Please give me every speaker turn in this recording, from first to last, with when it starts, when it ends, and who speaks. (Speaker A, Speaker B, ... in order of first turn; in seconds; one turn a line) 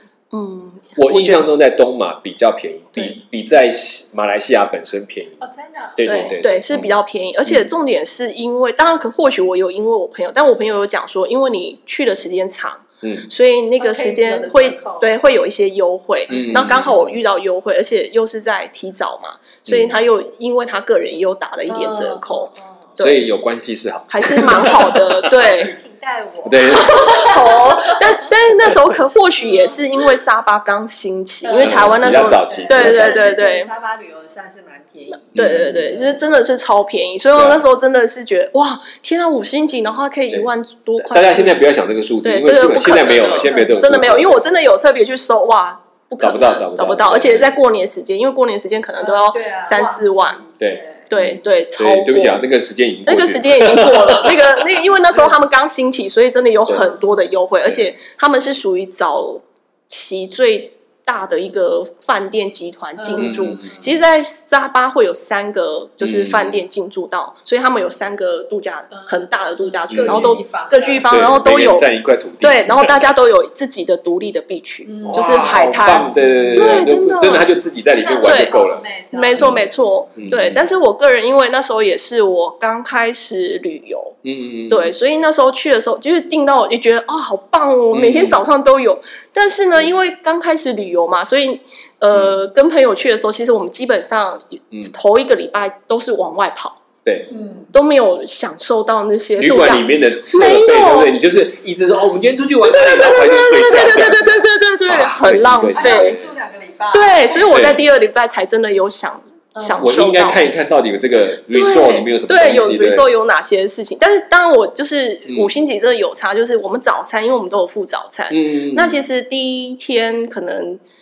Speaker A: 0.3-1.4
Speaker B: 0.9-5.4
Speaker C: 5.4-6.4
Speaker B: 6.0-6.9
Speaker A: 6.0-23.2
Speaker B: 13.0-13.3
Speaker C: 13.8-15.1
Speaker B: 16.3-17.0
Speaker B: 19.6-19.9
Speaker C: 21.7-22.9
Speaker B: 23.0-25.3
Speaker A: 24.1-25.7
Speaker C: 24.6-28.1
Speaker B: 26.4-27.4
Speaker A: 26.8-33.7
Speaker B: 28.5-28.9
Speaker C: 29.4-29.8
Speaker C: 31.4-36.2
Speaker B: 31.6-33.2
Speaker A: 35.3-41.6
Speaker B: 35.3-35.9
Speaker B: 37.3-37.6
Speaker B: 41.0-44.4
Speaker A: 42.2-50.4
Speaker C: 43.1-44.4
Speaker B: 46.2-47.6
Speaker C: 49.0-51.0
Speaker B: 50.6-55.3
Speaker A: 51.1-52.4
Speaker A: 53.0-77.5
Speaker C: 63.0-64.0
Speaker B: 63.2-63.7
Speaker B: 66.0-66.6
Speaker C: 68.9-71.1
Speaker B: 69.9-70.4
Speaker B: 71.1-73.1
Speaker C: 74.8-76.8
Speaker B: 75.1-78.8
Speaker C: 77.9-79.8
Speaker A: 78.2-78.6
Speaker A: 79.1-84.2
Speaker B: 80.2-80.6
Speaker B: 84.2-84.9
Speaker A: 84.7-96.8
Speaker B: 87.9-88.4
Speaker B: 92.1-92.4
Speaker B: 97.0-97.3
Speaker C: 97.3-97.7
Speaker A: 97.7-101.1
Speaker B: 99.4-106.2
Speaker A: 102.6-106.2
Speaker C: 105.7-107.5
Speaker A: 106.9-110.5
Speaker B: 107.5-107.8
Speaker B: 109.8-113.1
Speaker A: 111.5-120.8
Speaker B: 118.3-119.0